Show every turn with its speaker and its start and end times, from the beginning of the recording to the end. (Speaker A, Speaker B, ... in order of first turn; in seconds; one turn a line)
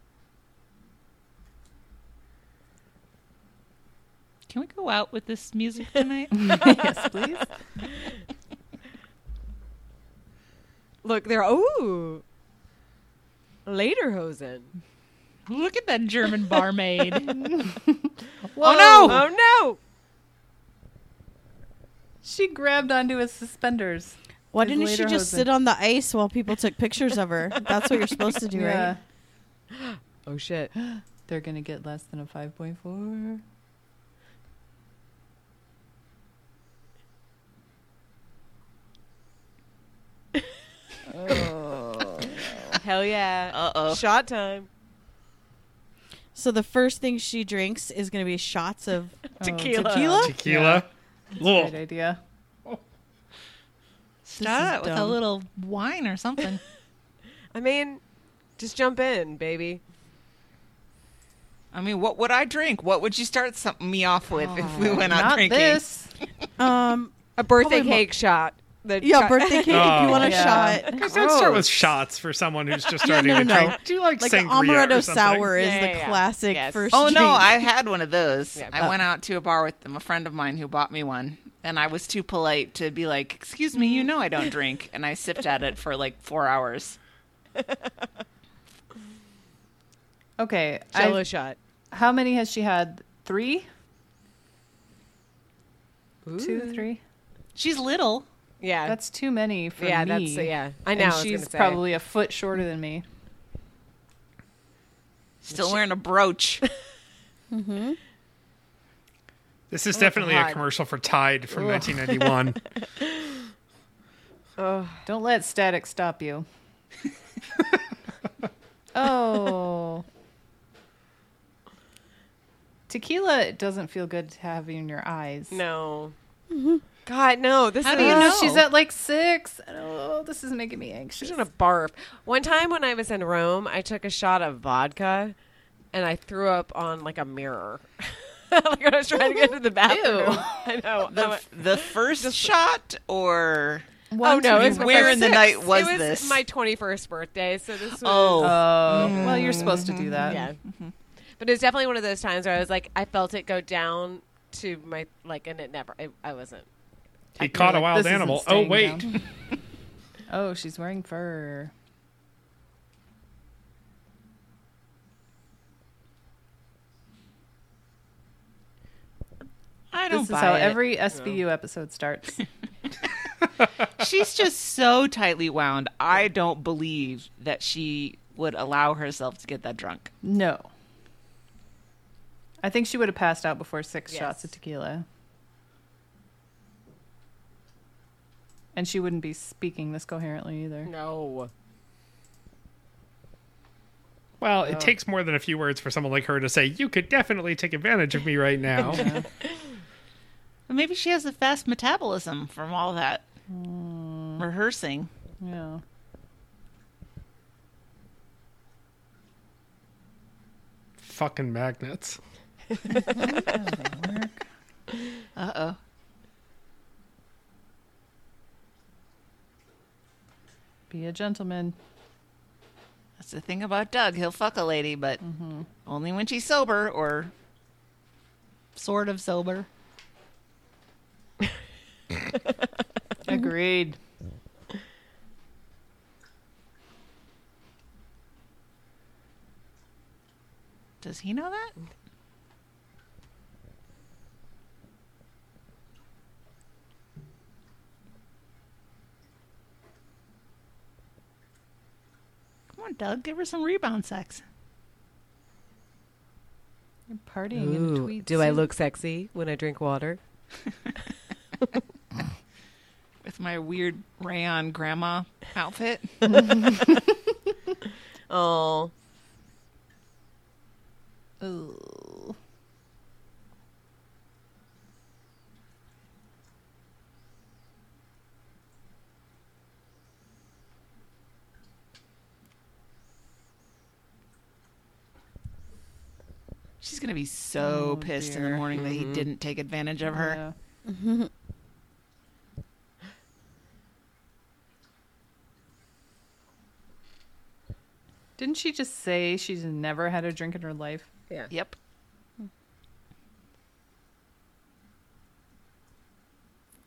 Speaker A: 4.5-6.8
Speaker B: 6.3-7.5
Speaker C: 11.0-12.2
Speaker C: 13.7-14.7
Speaker A: 15.5-17.4
Speaker B: 17.3-19.2
Speaker A: 18.6-19.3
Speaker C: 19.1-19.8
Speaker B: 22.2-25.5
Speaker D: 24.5-28.9
Speaker B: 28.5-29.0
Speaker C: 29.7-30.7
Speaker B: 30.8-33.4
Speaker B: 41.1-42.8
Speaker C: 42.8-44.7
Speaker A: 43.5-44.0
Speaker D: 46.4-49.2
Speaker B: 49.4-52.2
Speaker C: 49.4-50.3
Speaker E: 50.2-51.8
Speaker A: 54.3-56.6
Speaker D: 54.4-55.2
Speaker C: 57.5-58.0
Speaker C: 58.6-59.8
Speaker A: 61.7-65.8
Speaker B: 64.5-66.2
Speaker C: 64.5-65.0
Speaker D: 66.6-68.1
Speaker C: 67.4-71.6
Speaker D: 69.0-71.0
Speaker E: 69.7-75.5
Speaker B: 70.1-71.7
Speaker C: 73.0-73.7
Speaker D: 73.0-77.6
Speaker C: 75.5-76.9
Speaker A: 76.9-87.0
Speaker C: 78.6-78.9
Speaker B: 90.4-91.2
Speaker C: 90.9-91.6
Speaker B: 91.9-93.7
Speaker C: 96.3-96.9
Speaker B: 96.4-97.0
Speaker A: 97.5-98.3
Speaker C: 98.6-99.0
Speaker B: 98.9-103.0
Speaker C: 99.8-101.8
Speaker A: 105.4-106.6
Speaker C: 105.5-105.8
Speaker D: 107.5-108.0
Speaker E: 109.7-112.6
Speaker C: 109.9-110.6
Speaker B: 111.5-111.8
Speaker C: 113.0-113.3
Speaker C: 114.6-115.0
Speaker B: 115.1-116.5
Speaker B: 118.9-120.0
Speaker B: 122.9-125.6
Speaker C: 125.5-126.2
Speaker D: 126.5-126.8
Speaker C: 127.0-128.6
Speaker A: 127.8-128.6
Speaker B: 127.9-131.4
Speaker C: 131.2-135.3
Speaker C: 135.9-142.5
Speaker B: 139.9-140.6
Speaker A: 141.0-143.9
Speaker B: 144.1-145.6
Speaker C: 144.2-150.6
Speaker A: 144.5-146.4
Speaker A: 147.9-150.9
Speaker B: 148.4-150.4
Speaker C: 151.4-156.7
Speaker E: 157.4-159.1
Speaker C: 157.4-157.8
Speaker B: 157.4-159.1
Speaker B: 160.3-161.7
Speaker A: 169.9-170.8
Speaker B: 170.1-172.4
Speaker A: 174.0-180.1
Speaker B: 180.2-180.7
Speaker B: 182.6-185.1
Speaker C: 184.1-184.5
Speaker B: 188.7-190.9
Speaker C: 190.9-191.5
Speaker E: 194.4-199.1
Speaker B: 198.8-199.3
Speaker A: 200.7-203.2
Speaker B: 203.5-204.4
Speaker A: 204.4-205.1
Speaker B: 205.4-205.8
Speaker E: 211.0-212.2
Speaker B: 213.1-214.4
Speaker A: 215.4-215.8
Speaker B: 220.9-221.8
Speaker A: 223.2-225.2
Speaker B: 225.2-225.7
Speaker A: 225.8-227.3
Speaker A: 228.8-229.7
Speaker B: 233.3-234.0
Speaker A: 241.0-241.7
Speaker A: 252.7-254.4
Speaker B: 257.1-258.7
Speaker C: 257.5-260.2
Speaker A: 263.2-266.6
Speaker B: 266.3-267.1
Speaker C: 268.3-268.9
Speaker B: 271.4-272.4
Speaker A: 286.8-290.4
Speaker B: 287.6-288.6
Speaker C: 288.8-289.3
Speaker B: 290.1-290.6
Speaker D: 290.9-291.3
Speaker B: 298.4-301.1
Speaker A: 301.5-301.8